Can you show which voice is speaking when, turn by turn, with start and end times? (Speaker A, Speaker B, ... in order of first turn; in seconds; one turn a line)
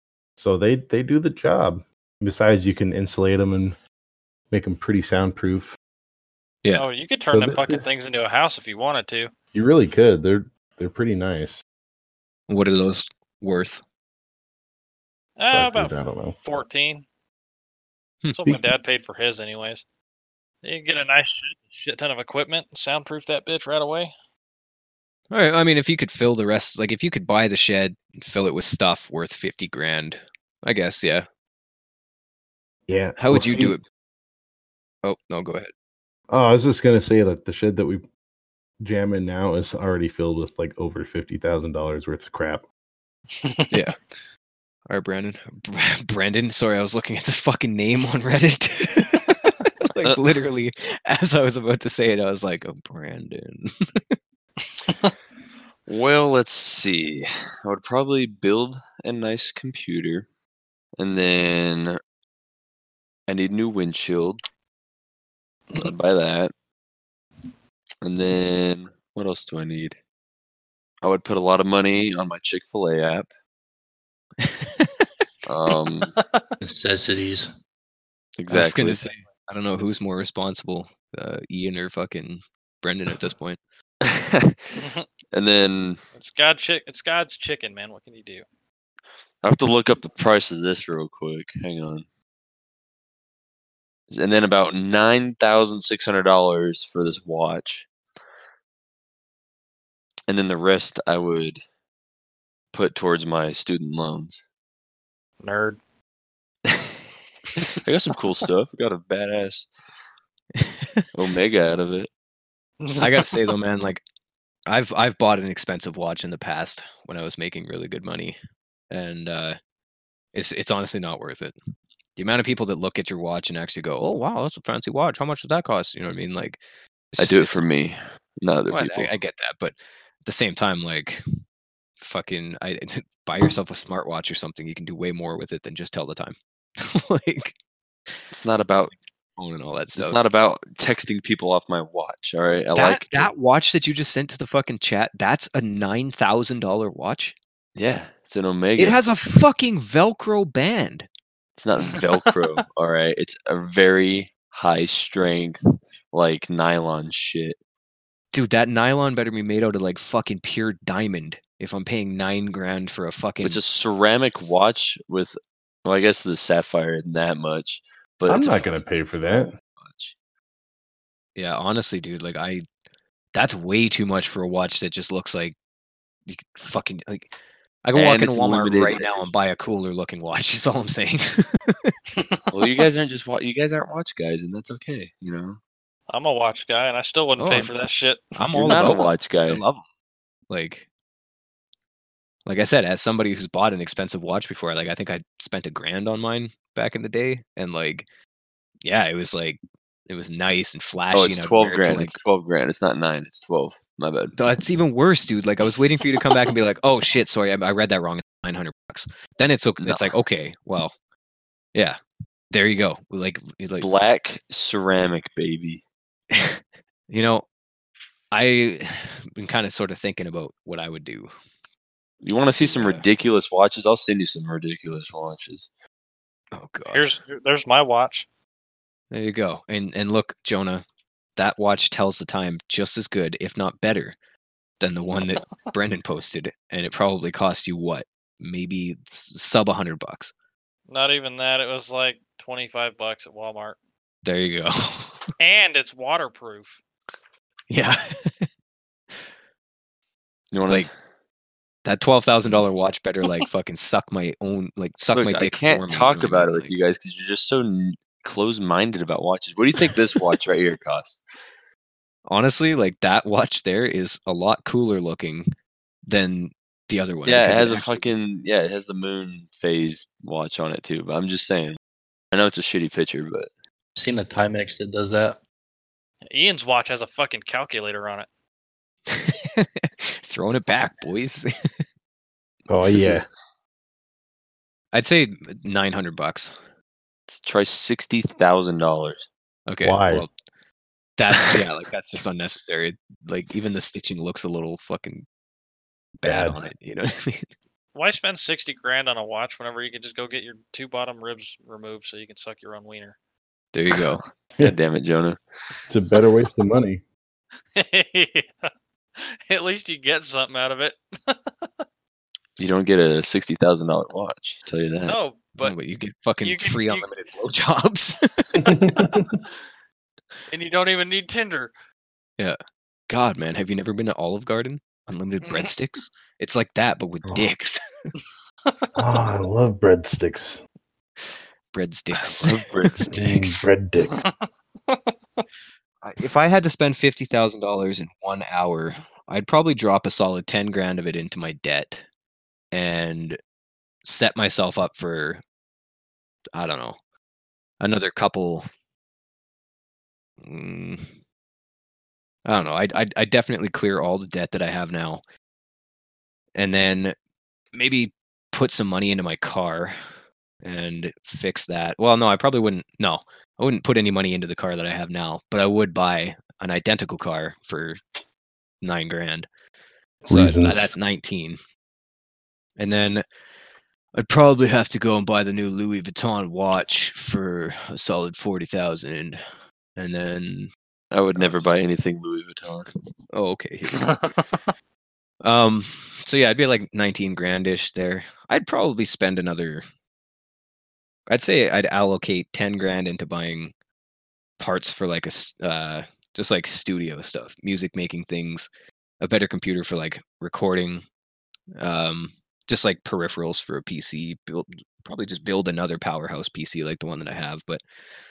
Speaker A: 0.4-3.8
Speaker A: 4.5-5.8
Speaker B: 6.7-9.3
Speaker A: 7.3-7.8
Speaker A: 9.5-11.6
Speaker C: 12.5-13.8
Speaker B: 15.4-17.0
Speaker A: 15.5-16.4
Speaker C: 18.2-18.6
Speaker B: 18.3-19.8
Speaker B: 20.6-24.1
Speaker C: 25.3-31.2
Speaker A: 32.9-33.8
Speaker C: 33.2-33.8
Speaker C: 35.0-35.7
Speaker A: 36.3-38.0
Speaker A: 38.8-42.6
Speaker B: 43.3-43.8
Speaker C: 43.7-44.0
Speaker C: 44.9-53.7
Speaker B: 54.6-55.1
Speaker D: 55.9-60.2
Speaker D: 61.0-62.0
Speaker D: 63.3-64.4
Speaker D: 65.7-66.5
Speaker D: 68.0-70.0
Speaker D: 71.0-73.3
Speaker C: 74.4-75.1
Speaker D: 75.5-76.1
Speaker B: 76.2-76.4
Speaker E: 76.6-77.5
Speaker D: 78.4-79.0
Speaker C: 78.5-83.6
Speaker D: 84.0-84.8
Speaker B: 84.8-85.0
Speaker D: 85.3-86.0
Speaker B: 86.2-88.4
Speaker D: 89.4-92.0
Speaker D: 94.1-97.9
Speaker D: 100.3-101.6
Speaker D: 102.7-104.4
Speaker B: 105.4-105.8
Speaker D: 107.7-109.7
Speaker C: 110.6-111.1
Speaker D: 111.1-112.1
Speaker B: 112.8-113.4
Speaker C: 113.0-114.0
Speaker C: 114.7-118.3
Speaker C: 118.9-119.6
Speaker C: 120.3-121.5
Speaker C: 122.2-126.6
Speaker C: 127.1-127.6
Speaker D: 127.2-129.1
Speaker C: 128.7-131.2
Speaker C: 132.0-137.5
Speaker D: 138.3-138.9
Speaker C: 139.4-140.2
Speaker D: 139.9-143.3
Speaker C: 142.7-147.3
Speaker D: 147.8-149.0
Speaker C: 148.8-151.1
Speaker D: 151.6-155.6
Speaker D: 156.1-157.6
Speaker C: 158.3-163.6
Speaker D: 163.4-168.6
Speaker A: 168.3-169.5
Speaker D: 169.8-170.1
Speaker C: 171.3-172.7
Speaker C: 173.3-175.5
Speaker C: 176.3-177.3
Speaker C: 177.8-181.9
Speaker D: 177.9-179.3
Speaker B: 182.1-182.9
Speaker D: 182.5-185.6
Speaker B: 186.1-188.4
Speaker C: 187.4-187.7
Speaker C: 188.4-189.8
Speaker D: 188.5-189.6
Speaker C: 190.5-190.8
Speaker C: 192.4-198.1
Speaker C: 198.8-202.2
Speaker D: 201.1-204.3
Speaker C: 204.3-210.9
Speaker D: 209.8-210.1
Speaker C: 212.5-213.9
Speaker D: 213.8-215.8
Speaker C: 216.3-217.4
Speaker C: 218.3-221.3
Speaker D: 222.2-225.7
Speaker C: 222.6-223.0
Speaker C: 226.5-227.2
Speaker B: 226.9-228.2
Speaker C: 229.1-230.8
Speaker C: 231.3-234.2
Speaker C: 234.8-240.3
Speaker B: 240.9-243.8
Speaker C: 244.2-245.2
Speaker B: 245.4-246.8
Speaker C: 247.7-248.5
Speaker D: 250.5-250.9
Speaker C: 251.8-256.7
Speaker D: 255.1-261.2
Speaker C: 262.3-265.5
Speaker C: 266.1-268.1
Speaker D: 267.2-271.8
Speaker D: 272.3-273.5
Speaker E: 273.9-275.4
Speaker B: 276.3-278.3
Speaker C: 279.1-281.5
Speaker A: 282.7-283.2
Speaker C: 284.9-286.6
Speaker D: 287.3-289.3
Speaker C: 289.7-290.3
Speaker A: 289.8-290.3
Speaker C: 291.2-295.2
Speaker C: 296.2-297.5
Speaker A: 296.2-296.6
Speaker B: 297.9-303.1
Speaker C: 303.7-304.2
Speaker D: 304.6-305.4
Speaker A: 305.9-307.0
Speaker B: 307.7-311.4
Speaker D: 312.6-315.2
Speaker B: 315.1-315.8
Speaker C: 315.6-319.1
Speaker B: 316.4-317.1
Speaker A: 318.6-319.3
Speaker B: 320.5-321.7
Speaker C: 323.1-328.1
Speaker B: 325.4-325.7
Speaker A: 328.9-330.6
Speaker C: 331.7-333.6
Speaker D: 332.4-333.1
Speaker A: 333.1-334.2
Speaker C: 336.0-342.0
Speaker C: 342.7-343.4
Speaker C: 344.0-345.4
Speaker C: 346.5-347.0
Speaker C: 347.8-348.7
Speaker C: 350.4-351.1
Speaker C: 352.4-355.2
Speaker C: 356.5-357.1
Speaker C: 357.7-360.0
Speaker C: 360.6-368.0
Speaker C: 368.8-369.5
Speaker C: 370.2-371.6
Speaker A: 370.3-370.9
Speaker C: 372.8-373.2
Speaker C: 374.1-379.4
Speaker C: 379.9-380.7
Speaker D: 381.1-382.9
Speaker C: 383.3-384.3
Speaker C: 385.4-389.8
Speaker C: 391.3-393.7
Speaker C: 394.6-398.7
Speaker C: 399.2-401.0
Speaker C: 401.8-407.8